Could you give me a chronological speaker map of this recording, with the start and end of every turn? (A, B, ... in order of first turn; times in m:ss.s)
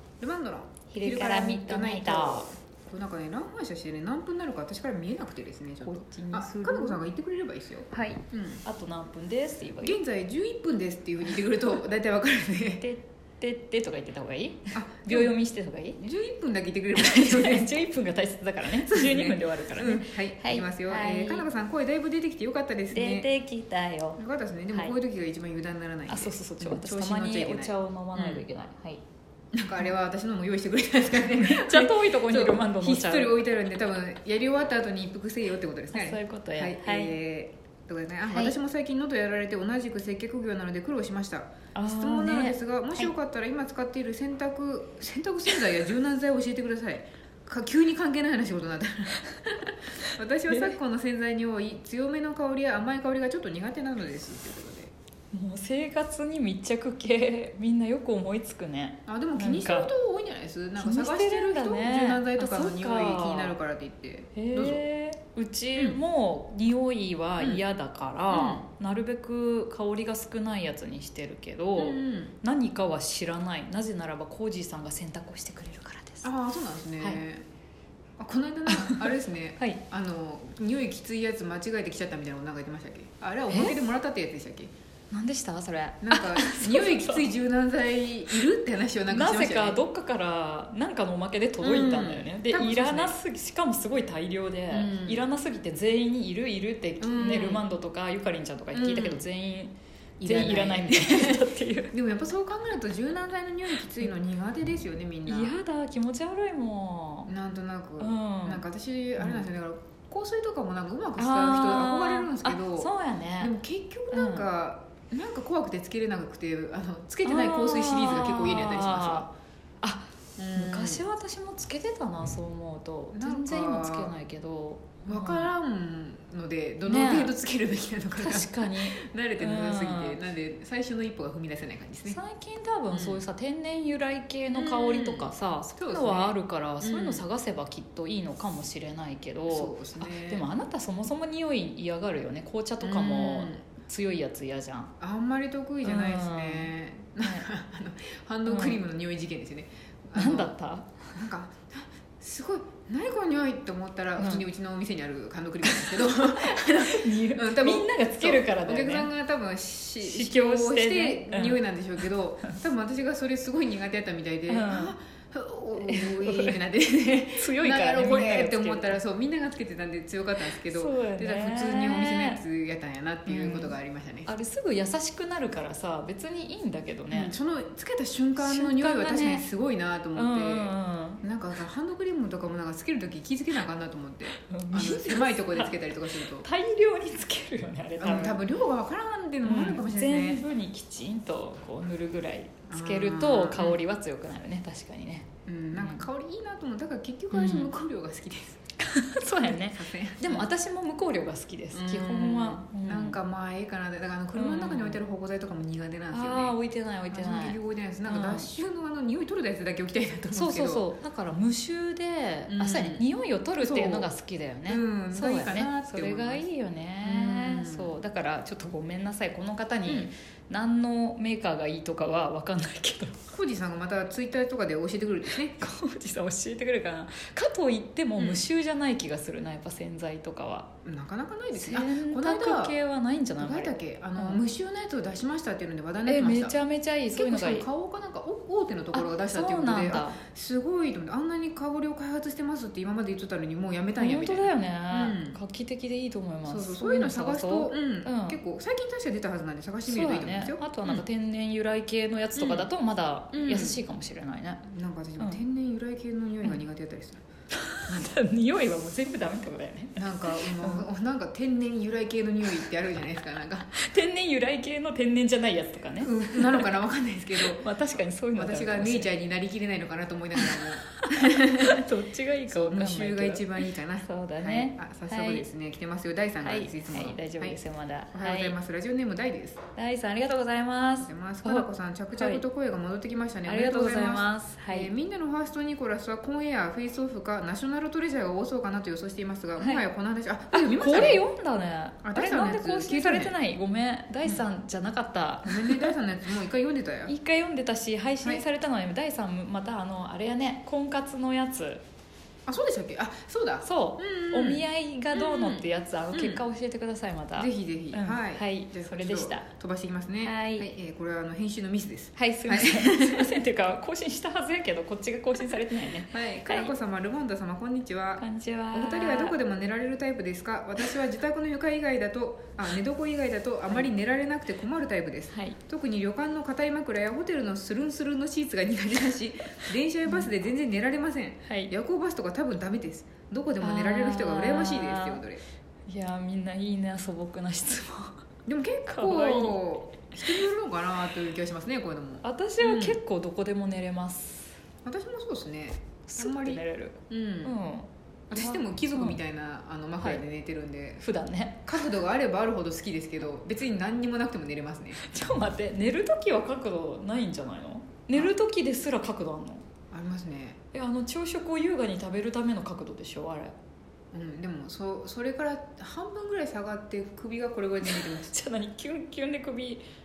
0:00.2-0:08.6 A
0:00.9-0:02.5 B
0:05.8-0:07.0 B
0:07.9-0:10.0 B
0:09.8-0:12.8 A
0:12.8-0:16.0 B
0:14.7-0:15.3 A
0:16.0-0:17.7 A
0:17.0-0:21.5 B
0:18.8-0:23.3 A
0:22.9-0:24.2 B
0:24.2-0:28.4 A
0:26.1-0:29.0 B
0:29.5-0:54.9 A
0:31.1-0:33.4 B
0:35.9-0:37.1 B
0:38.3-0:38.5 B
0:41.7-0:43.1 B
0:55.3-0:59.9 B
0:59.0-1:04.8 A
1:00.8-1:03.5 B
1:04.3-1:16.3 B
1:08.3-1:08.6 A
1:11.8-1:12.4 A
1:16.2-1:17.4 A
1:18.2-1:24.7 A
1:18.7-1:19.8 B
1:23.5-1:23.8 B
1:25.1-1:27.3 B
1:26.0-1:29.8 A
1:29.1-1:39.7 B
1:31.6-1:33.1 A
1:34.7-1:35.2 A
1:37.0-1:37.6 A
1:38.7-1:39.2 A
1:40.2-1:45.6 A
1:40.2-1:41.9 B
1:45.3-1:47.3 B
1:47.3-1:59.3 A
1:48.0-1:48.6 B
1:49.2-1:49.5 B
1:51.2-1:53.5 B
1:54.1-1:54.5 B
1:57.2-1:59.3 B
1:59.8-2:05.5 B
2:00.4-2:01.0 A
2:03.1-2:04.1 A
2:05.1-2:12.2 A
2:06.8-2:07.3 B
2:08.2-2:10.2 B
2:12.1-2:24.9 B
2:12.9-2:13.2 A
2:14.5-2:17.2 A
2:19.5-2:20.5 A
2:22.8-2:23.6 A
2:25.0-2:30.5 A
2:25.8-2:26.7 B
2:27.2-2:27.4 B
2:28.5-2:28.8 B
2:30.1-2:30.9 B
2:31.1-2:54.3 A
2:34.2-2:34.4 B
2:36.9-2:39.1 B
2:40.0-2:41.6 B
2:44.5-2:44.9 B
2:45.8-2:46.6 B
2:47.4-2:49.0 B
2:50.6-2:52.4 B
2:53.3-2:53.7 B
2:54.2-2:57.3 B
2:57.1-3:06.4 A
2:58.4-2:59.4 B
3:00.2-3:01.2 B
3:04.4-3:05.8 B
3:06.4-3:08.4 B
3:08.0-3:10.4 A
3:09.4-3:16.0 B
3:12.7-3:13.8 A
3:15.4-3:18.6 A
3:17.3-3:17.7 B
3:18.8-3:23.2 B
3:19.3-3:20.5 A
3:21.7-3:26.6 A
3:24.3-3:25.0 B
3:26.1-3:28.5 B
3:27.1-3:30.8 A
3:30.3-3:43.3 B
3:32.5-3:33.0 A
3:33.6-3:34.1 A
3:34.7-3:36.4 A
3:37.0-3:37.9 A
3:43.3-3:45.6 A
3:45.6-3:50.7 B
3:48.2-3:48.4 A
3:50.8-3:52.8 A
3:51.5-3:54.4 B
3:53.4-3:56.6 A
3:56.0-3:57.7 B
3:57.1-4:05.4 A
3:58.9-4:00.2 B
4:04.0-4:08.4 B
4:06.4-4:11.0 A
4:09.8-4:14.6 B
4:12.4-4:12.7 A
4:13.3-4:13.8 A
4:14.6-4:17.2 A
4:17.5-4:20.9 B
4:20.0-4:23.7 A
4:23.7-4:26.6 B
4:26.0-4:27.7 A
4:27.3-4:29.1 B
4:28.3-4:31.8 A
4:30.4-4:35.4 B
4:32.5-4:37.6 A
4:36.4-4:38.6 B
4:38.1-4:39.6 A
4:39.8-4:42.4 B
4:41.0-4:51.2 A
4:43.4-4:44.9 B
4:49.6-4:49.8 B
4:50.5-4:55.9 B
4:52.0-4:53.3 A
4:55.4-4:57.1 A
4:57.1-5:01.8 B
5:02.5-5:06.4 A
5:03.6-5:09.5 B
5:07.4-5:13.4 A
5:10.2-5:10.7 B
5:12.2-5:16.7 B
5:16.1-5:35.4 A
5:18.2-5:19.4 B
5:25.3-5:25.6 B
5:31.4-5:31.7 B
5:33.6-5:35.2 B
5:35.9-5:38.2 B
5:38.5-5:43.0 A
5:38.9-5:40.4 B
5:42.2-5:44.5 B
5:44.8-5:47.5 A
5:46.1-5:49.2 B
5:48.3-5:51.0 A
5:51.0-5:51.6 B
5:51.6-5:55.0 A
5:55.0-5:59.6 B
5:59.9-6:00.6 A
6:00.7-6:03.5 B
6:04.1-6:08.3 A
6:07.8-6:09.8 B